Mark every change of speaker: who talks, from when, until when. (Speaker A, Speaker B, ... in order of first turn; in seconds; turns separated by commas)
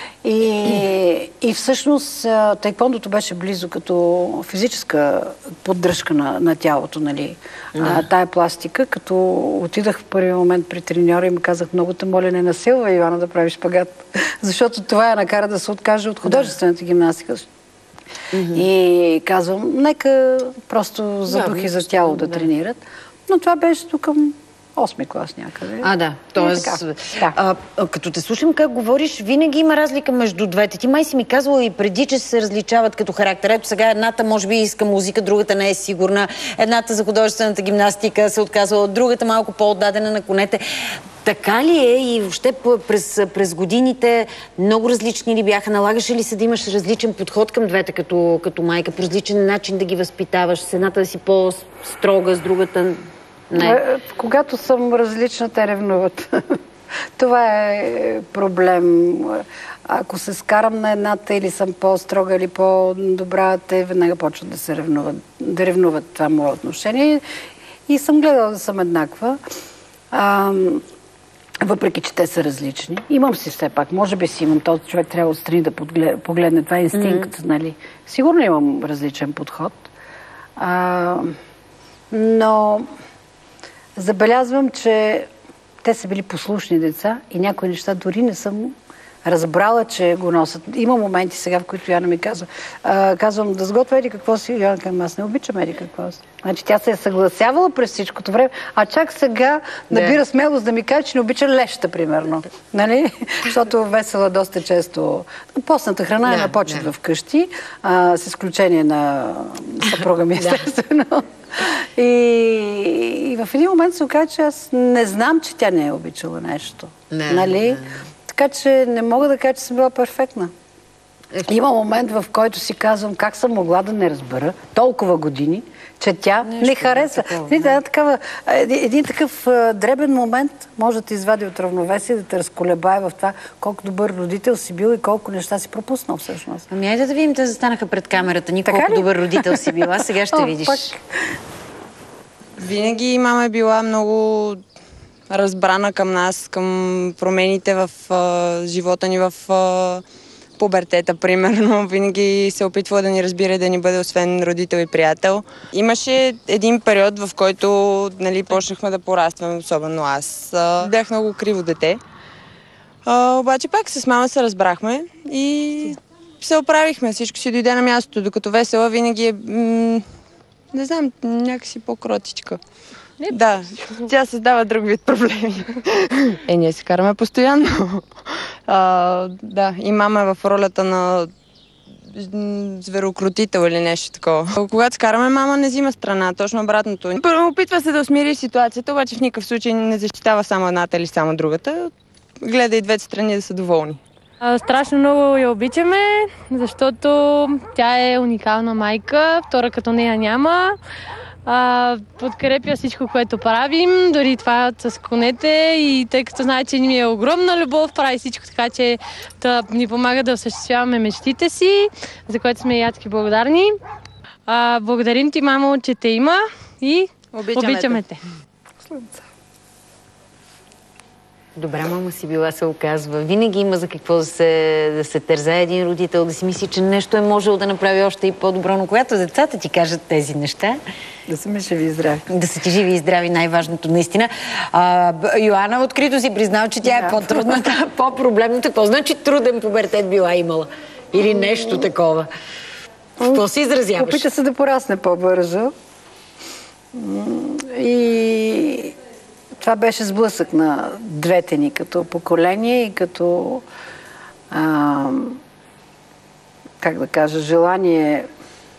Speaker A: 0.2-17.5, Speaker B: 16.3-16.5, Speaker B: 18.3-18.6, Speaker A: 18.5-27.4, Speaker B: 21.3-22.5, Speaker B: 25.8-53.8, Speaker A: 53.6-56.6, Speaker A: 57.2-67.2, Speaker A: 67.9-69.4, Speaker A: 70.1-70.8, Speaker A: 71.6-79.8, Speaker B: 77.0-77.3, Speaker A: 80.6-81.4, Speaker A: 82.1-82.9, Speaker A: 84.0-85.3, Speaker A: 85.8-120.5, Speaker B: 99.9-100.2, Speaker B: 106.2-106.9, Speaker B: 117.1-118.0, Speaker A: 121.5-136.7, Speaker B: 126.4-127.8, Speaker B: 136.7-140.9, Speaker A: 138.7-141.4, Speaker C: 142.6-144.6, Speaker C: 145.3-150.0, Speaker C: 150.6-162.0, Speaker C: 163.1-170.1, Speaker C: 170.7-172.6, Speaker C: 173.3-181.3, Speaker C: 182.0-194.0, Speaker D: 194.4-200.8, Speaker D: 201.4-213.8, Speaker D: 214.5-218.2, Speaker C: 217.3-218.0, Speaker A: 218.9-219.2, Speaker B: 221.6-230.8, Speaker A: 231.3-232.3, Speaker B: 232.3-242.3, Speaker A: 236.8-237.7, Speaker B: 243.2-244.3, Speaker A: 244.0-245.7, Speaker A: 246.9-249.0, Speaker A: 249.6-253.7, Speaker A: 254.5-255.4, Speaker A: 256.8-258.3